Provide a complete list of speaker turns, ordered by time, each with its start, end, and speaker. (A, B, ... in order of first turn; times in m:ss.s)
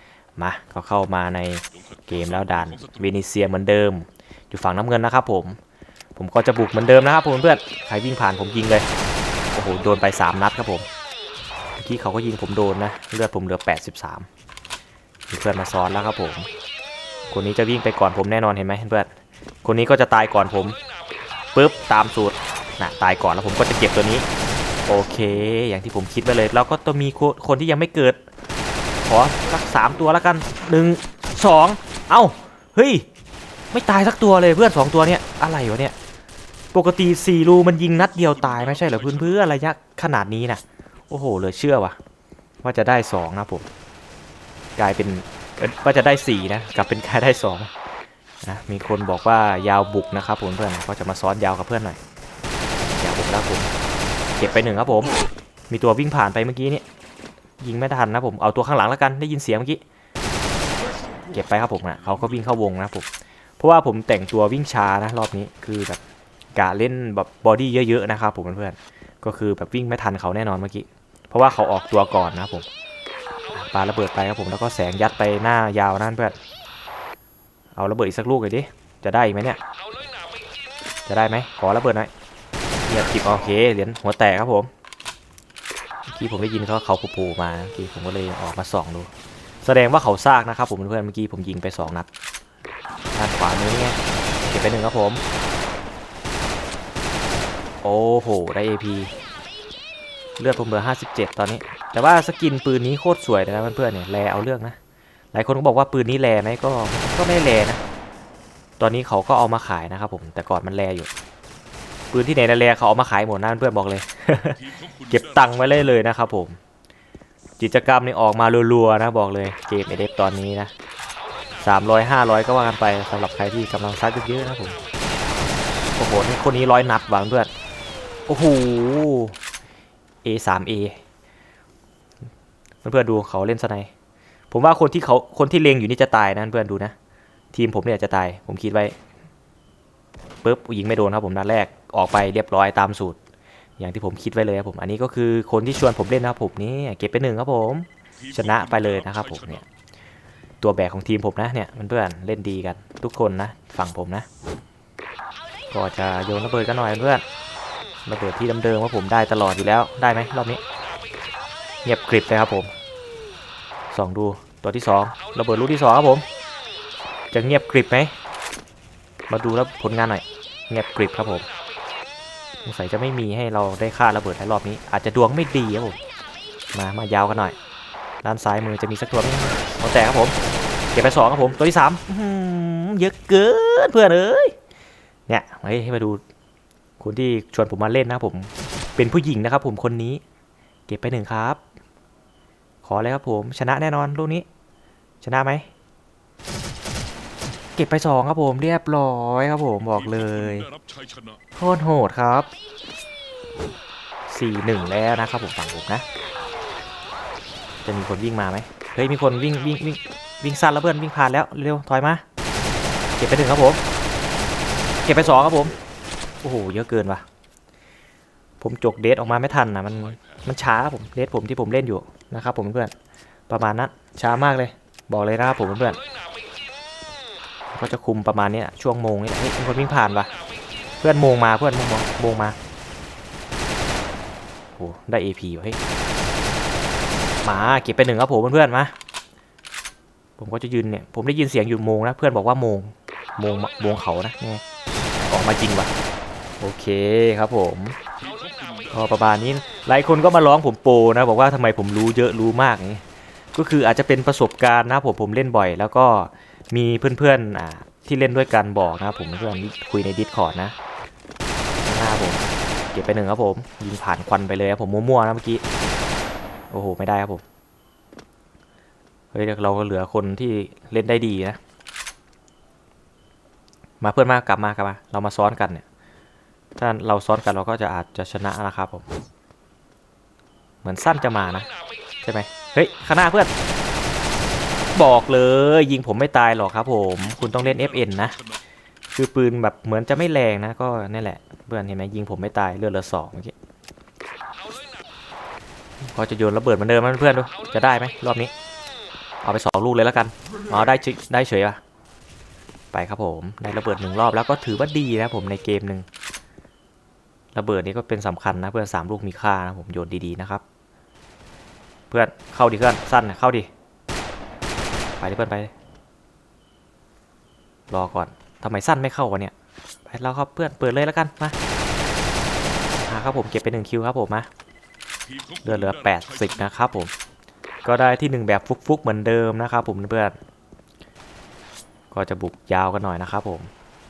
0:00.4-0:05.6 A
0:02.5-0:02.9 B
0:06.2-0:08.9 A
0:09.5-0:10.9 A
0:11.8-0:14.3 A
0:15.3-0:16.5 A
0:17.3-0:19.1 A
0:19.6-0:20.8 A
0:21.5-0:24.2 A
0:24.9-0:28.2 A
0:29.0-0:33.0 A
0:33.7-0:35.9 A
0:36.7-0:42.0 A
0:38.3-0:39.3 B
0:42.6-0:43.7 A
0:44.8-0:47.7 A
0:48.4-0:52.0 A
0:52.9-0:53.7 A
0:54.4-0:55.1 A
0:55.7-0:56.8 A
0:57.6-0:59.8 A
1:01.3-1:03.1 A
1:03.6-1:06.0 A
1:06.6-1:12.7 A
1:13.5-1:16.4 A
1:17.8-1:19.6 A
1:21.0-1:22.1 A
1:22.9-1:24.7 A
1:26.1-1:29.1 A
1:29.6-1:32.1 A
1:33.1-1:35.2 A
1:37.8-1:39.2 A
1:40.4-1:44.8 A
1:45.3-1:47.8 A
1:48.8-1:51.1 A
1:52.1-1:56.6 A
1:54.6-1:55.2 B
1:57.6-2:00.7 A
2:01.6-2:04.8 A
2:06.0-2:07.5 A
2:08.3-2:09.4 A
2:10.2-2:11.0 A
2:12.8-2:13.9 A
2:14.5-2:16.9 A
2:17.5-2:19.0 A
2:20.4-2:23.2 A
2:23.8-2:29.6 A
2:28.2-2:29.3 B
2:30.6-2:34.2 A
2:35.7-2:37.2 A
2:38.0-2:40.6 A
2:41.8-2:42.7 A
2:43.9-2:46.2 A
2:47.3-2:48.1 A
2:49.3-2:51.5 A
2:52.6-2:56.0 A
2:56.7-2:57.6 A
2:58.2-3:00.3 A
3:00.9-3:04.5 A
3:05.3-3:06.2 A
3:07.0-3:10.2 A
3:10.9-3:11.6 A
3:12.8-3:14.4 A
3:15.2-3:15.7 A
3:17.8-3:20.7 A
3:20.0-3:21.4 B
3:21.6-3:22.5 A
3:24.3-3:26.0 A
3:27.8-3:32.2 A
3:33.2-3:33.8 A
3:35.0-3:35.8 A
3:36.4-3:37.2 A
3:38.6-3:42.9 A
3:43.5-3:46.0 A
3:47.7-3:50.3 A
3:51.0-3:52.6 A
3:54.8-3:55.8 A
3:57.4-3:58.9 A
4:00.4-4:04.6 A
4:05.2-4:05.9 A
4:06.6-4:08.0 A
4:08.2-4:09.0 B
4:08.9-4:20.7 A
4:21.8-4:25.6 A
4:26.7-4:27.4 A
4:29.3-4:31.6 A
4:34.0-4:35.8 A
4:36.8-4:39.0 A
4:40.8-4:41.7 A
4:42.2-4:43.5 A
4:44.9-4:48.4 A
4:47.5-4:48.6 B
4:49.1-4:53.5 A
4:56.0-4:58.5 A
4:59.4-5:01.8 A
5:02.9-5:06.0 A
5:07.5-5:10.6 A
5:12.1-5:13.7 A
5:15.2-5:15.7 A
5:17.9-5:19.5 A
5:20.1-5:21.6 A
5:23.0-5:24.5 A
5:25.3-5:26.7 B
5:25.6-5:27.1 A
5:27.8-5:30.4 A
5:32.1-5:33.7 A